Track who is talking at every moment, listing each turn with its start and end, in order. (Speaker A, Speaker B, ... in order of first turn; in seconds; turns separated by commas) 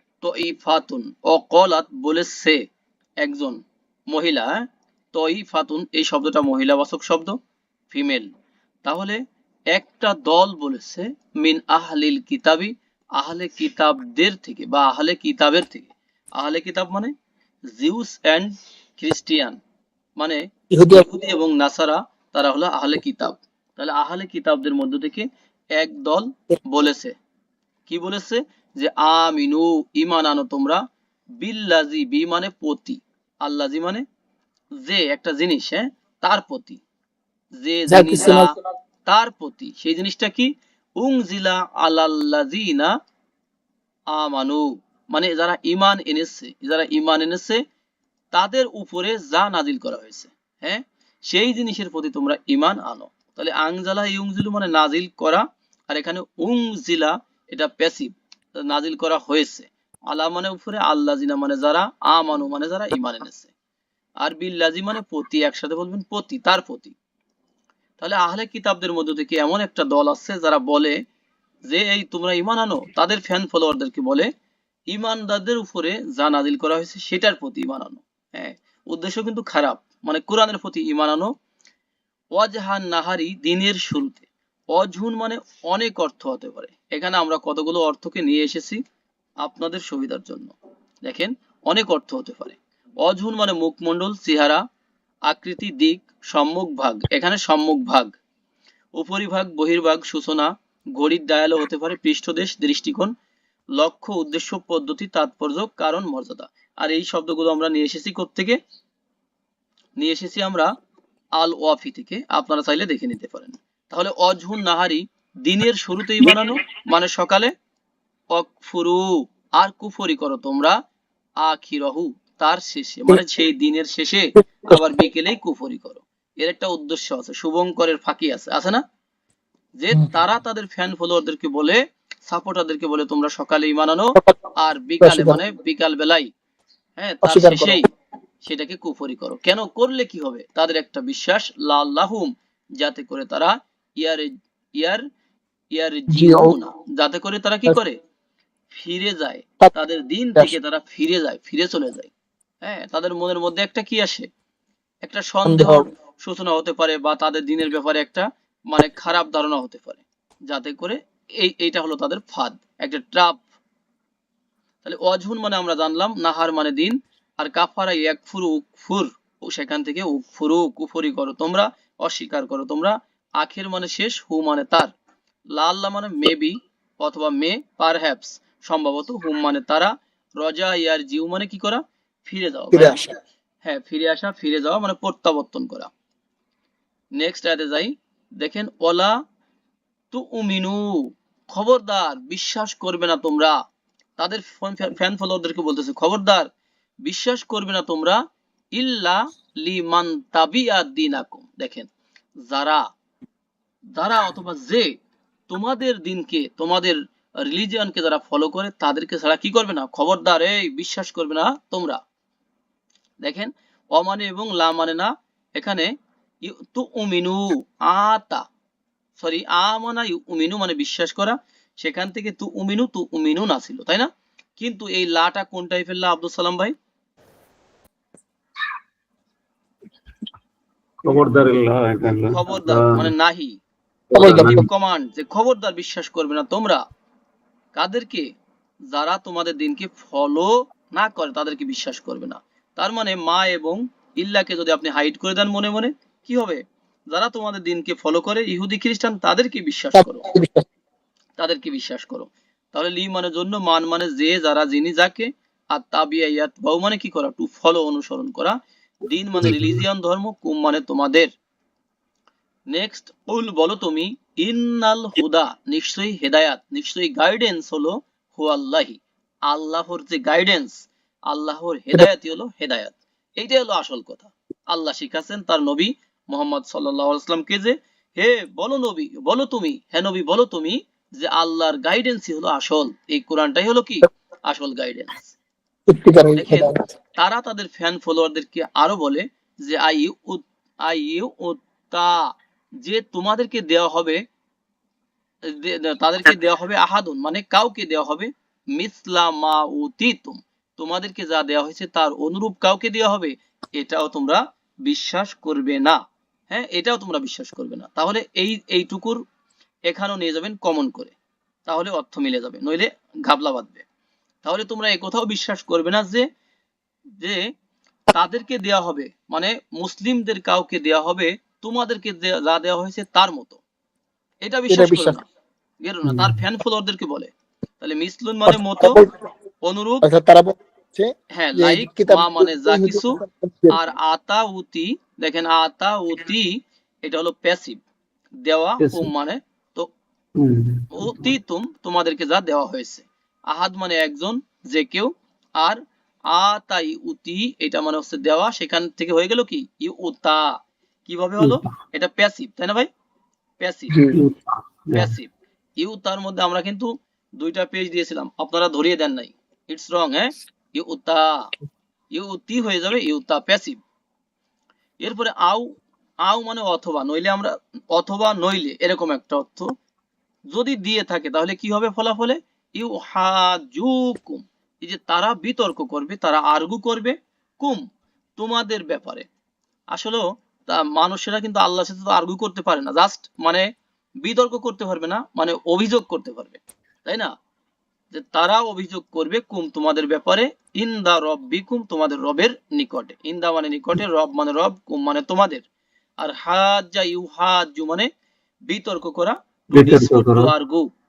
Speaker A: 0.2-2.6, Speaker A: 3.2-3.6, Speaker A: 4.1-7.4, Speaker A: 7.9-8.3, Speaker A: 8.8-9.2, Speaker A: 9.7-17.1, Speaker A: 17.7-19.6, Speaker A: 20.2-27.2, Speaker B: 20.7-21.1, Speaker A: 27.9-30.8, Speaker A: 31.4-34.0, Speaker A: 34.8-36.8, Speaker A: 37.5-38.5, Speaker B: 37.9-38.5, Speaker A: 39.1-42.9, Speaker A: 44.1-47.6, Speaker A: 48.3-63.5, Speaker A: 64.2-67.0, Speaker A: 68.0-71.0, Speaker A: 71.7-74.3, Speaker A: 74.9-81.3, Speaker A: 82.3-88.8, Speaker A: 89.4-90.5, Speaker A: 91.0-94.6, Speaker A: 95.3-98.1, Speaker A: 99.0-103.1, Speaker A: 103.8-108.6, Speaker A: 110.0-110.7, Speaker A: 111.4-117.5, Speaker A: 118.3-120.8, Speaker A: 121.4-128.8, Speaker A: 129.8-136.3, Speaker B: 135.0-135.4, Speaker A: 137.0-137.9, Speaker B: 137.2-137.8, Speaker A: 138.4-145.1, Speaker A: 145.7-148.0, Speaker B: 146.1-146.6, Speaker A: 148.7-152.1, Speaker A: 152.6-154.3, Speaker A: 155.0-163.4, Speaker B: 155.4-155.9, Speaker A: 164.8-174.9, Speaker A: 175.5-183.0, Speaker B: 182.7-183.1, Speaker A: 183.6-185.9, Speaker A: 187.2-189.2, Speaker A: 190.1-193.6, Speaker A: 194.2-196.5, Speaker A: 197.0-198.2, Speaker A: 198.8-201.9, Speaker A: 202.4-202.8, Speaker A: 204.0-204.9, Speaker A: 205.5-212.0, Speaker A: 213.2-215.9, Speaker A: 216.4-218.5, Speaker A: 219.2-226.7, Speaker C: 231.0-233.1, Speaker A: 232.3-233.6, Speaker C: 234.1-234.7, Speaker B: 234.2-234.7, Speaker A: 234.2-236.8, Speaker A: 237.7-238.3, Speaker A: 238.9-250.3, Speaker B: 249.9-250.7, Speaker A: 251.4-261.3, Speaker C: 259.4-259.8, Speaker A: 262.7-285.4, Speaker B: 285.9-286.8, Speaker A: 286.4-292.3, Speaker A: 292.8-294.2, Speaker A: 295.4-309.2, Speaker A: 309.9-311.1, Speaker A: 311.7-313.9, Speaker A: 314.4-316.3, Speaker A: 317.2-317.5, Speaker A: 318.1-323.6, Speaker A: 324.4-325.2, Speaker B: 324.7-325.2, Speaker A: 325.8-329.0, Speaker C: 326.1-326.4, Speaker B: 328.5-329.2, Speaker A: 329.6-330.1, Speaker B: 330.0-333.8, Speaker A: 331.3-337.8, Speaker A: 338.4-339.9, Speaker C: 338.8-339.1, Speaker C: 340.4-341.3, Speaker A: 340.9-352.9, Speaker C: 351.4-351.7, Speaker A: 353.6-353.9, Speaker B: 353.9-354.2, Speaker C: 354.1-355.1, Speaker A: 354.9-361.5, Speaker A: 362.1-363.8, Speaker A: 365.0-365.7, Speaker A: 366.2-369.7, Speaker A: 370.5-377.9, Speaker A: 378.4-379.3, Speaker A: 379.9-383.7, Speaker A: 384.2-387.3, Speaker A: 388.1-395.6, Speaker A: 396.2-398.1, Speaker A: 398.7-400.9, Speaker C: 399.7-400.5